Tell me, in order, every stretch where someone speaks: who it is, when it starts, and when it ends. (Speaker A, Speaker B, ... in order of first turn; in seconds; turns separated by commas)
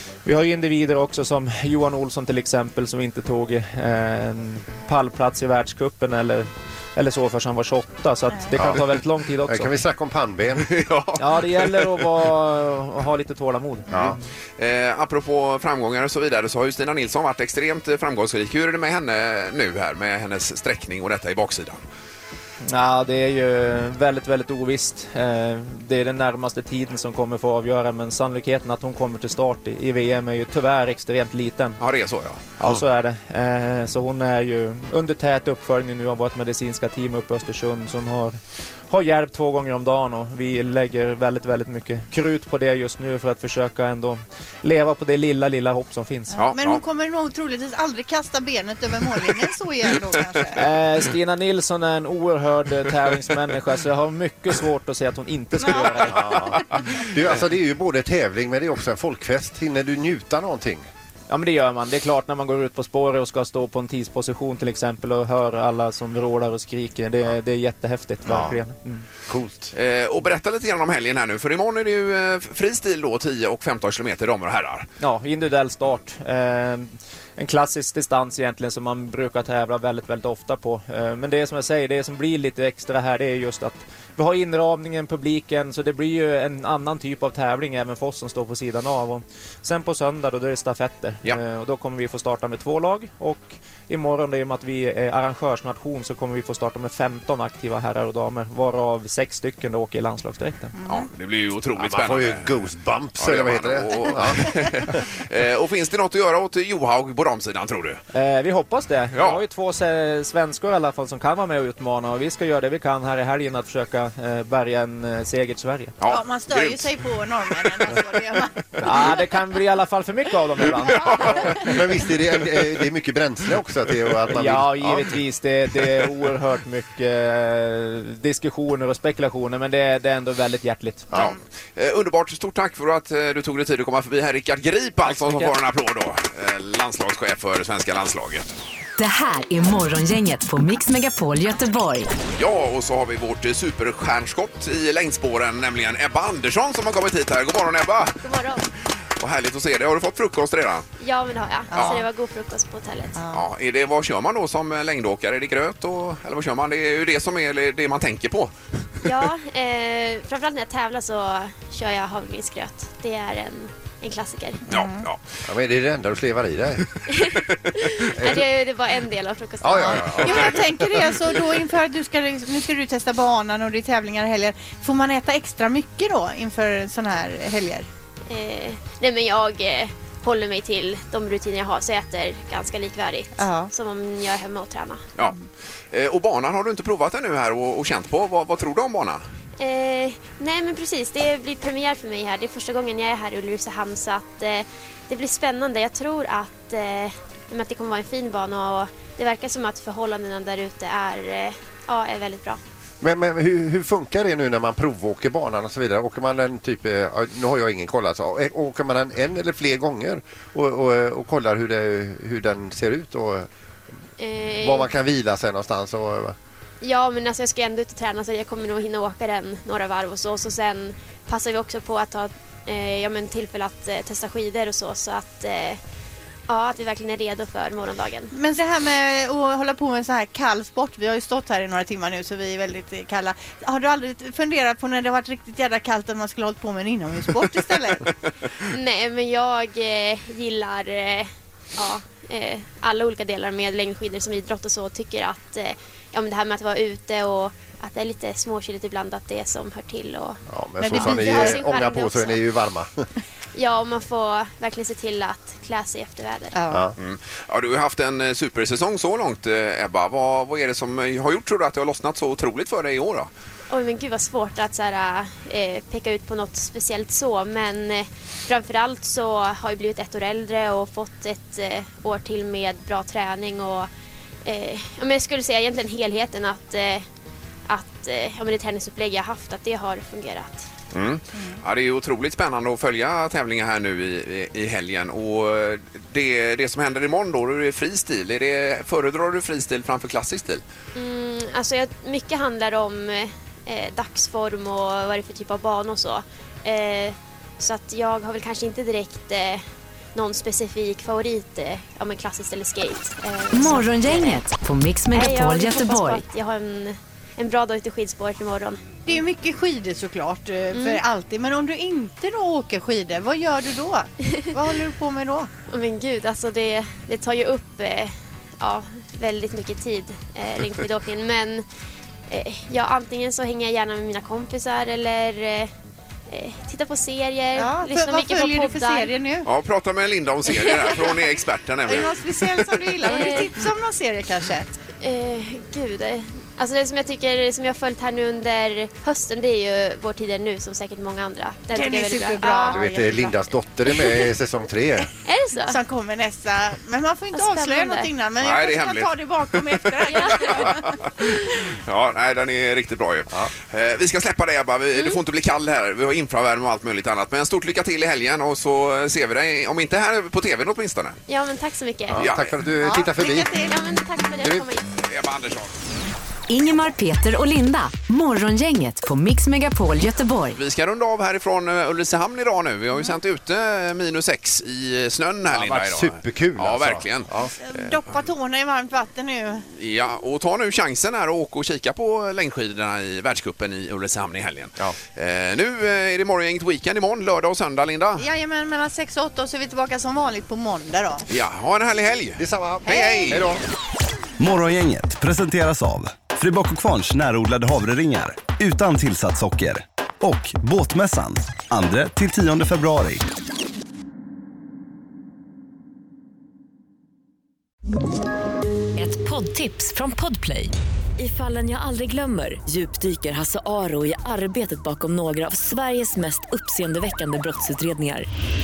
Speaker A: 0.2-9.7, Speaker B: 8.5-8.8, Speaker B: 9.5-10.7, Speaker C: 10.6-12.0, Speaker A: 11.2-13.9, Speaker B: 13.9-14.1, Speaker C: 13.9-21.8, Speaker A: 22.6-31.8, Speaker C: 31.8-32.8, Speaker A: 32.6-38.3, Speaker A: 38.9-46.4, Speaker D: 46.3-50.6, Speaker C: 46.3-46.8, Speaker A: 50.5-56.4, Speaker D: 55.6-56.6, Speaker B: 56.1-60.9, Speaker A: 61.3-69.0, Speaker B: 68.2-68.6, Speaker B: 69.3-69.7, Speaker C: 69.7-74.9, Speaker A: 75.0-100.7, Speaker C: 100.8-102.5, Speaker B: 101.8-104.8, Speaker C: 103.2-108.0, Speaker A: 108.1-115.9, Speaker C: 109.2-109.4, Speaker C: 116.0-116.9, Speaker D: 116.1-119.1, Speaker A: 118.8-121.1, Speaker C: 120.8-121.7, Speaker B: 121.5-125.1, Speaker A: 124.3-131.1, Speaker C: 131.1-138.4, Speaker A: 135.0-135.5, Speaker E: 139.0-142.1, Speaker C: 142.3-148.2, Speaker F: 148.2-148.6, Speaker C: 149.2-150.9, Speaker F: 151.0-153.3, Speaker D: 151.7-152.0, Speaker C: 151.7-152.0, Speaker D: 153.2-153.4, Speaker C: 153.3-158.5, Speaker F: 159.0-164.6, Speaker D: 164.7-165.0, Speaker C: 164.7-165.2, Speaker B: 165.4-166.8, Speaker F: 167.2-170.5, Speaker B: 168.1-168.4, Speaker B: 169.6-170.7, Speaker C: 169.9-170.5, Speaker D: 170.2-177.9, Speaker F: 178.3-185.0, Speaker D: 183.4-183.7, Speaker C: 185.9-189.2, Speaker F: 189.6-202.6, Speaker B: 203.0-213.5, Speaker F: 214.2-214.9, Speaker B: 214.6-216.3, Speaker F: 216.8-225.8, Speaker F: 226.5-228.3, Speaker D: 228.3-238.1, Speaker F: 238.6-252.4, Speaker B: 250.5-253.1, Speaker D: 250.8-251.6, Speaker F: 253.5-256.6, Speaker D: 256.5-256.9, Speaker C: 257.0-263.3, Speaker F: 263.7-273.9, Speaker F: 274.4-277.1, Speaker F: 277.7-280.7, Speaker C: 280.9-290.6, Speaker D: 281.3-281.6, Speaker F: 290.9-299.6, Speaker F: 300.1-304.4, Speaker E: 303.5-306.2, Speaker F: 305.1-309.2, Speaker D: 309.1-315.5, Speaker F: 310.7-311.0, Speaker F: 314.3-314.6, Speaker F: 315.7-321.6, Speaker F: 322.3-325.7, Speaker F: 326.3-329.1, Speaker D: 327.6-329.5, Speaker C: 329.4-332.3, Speaker F: 330.5-331.2, Speaker D: 331.9-334.8, Speaker F: 333.0-333.7, Speaker F: 335.0-342.8, Speaker D: 341.7-343.4, Speaker B: 342.6-345.1, Speaker F: 345.2-345.8, Speaker D: 345.7-351.0, Speaker F: 347.3-348.1, Speaker C: 348.4-361.2, Speaker F: 350.1-350.7, Speaker F: 354.9-355.2, Speaker F: 361.3-362.3, Speaker B: 362.1-363.5, Speaker C: 362.1-362.5, Speaker D: 362.8-363.8, Speaker F: 363.6-364.9, Speaker B: 364.4-364.7, Speaker C: 365.0-365.8, Speaker E: 366.5-370.6, Speaker C: 370.5-377.9, Speaker B: 375.5-377.5, Speaker D: 377.6-379.6, Speaker C: 379.7-388.2, Speaker D: 388.2-391.2, Speaker C: 391.3-393.5, Speaker B: 392.4-393.6, Speaker D: 392.9-393.4, Speaker G: 394.4-403.2, Speaker H: 408.9-418.3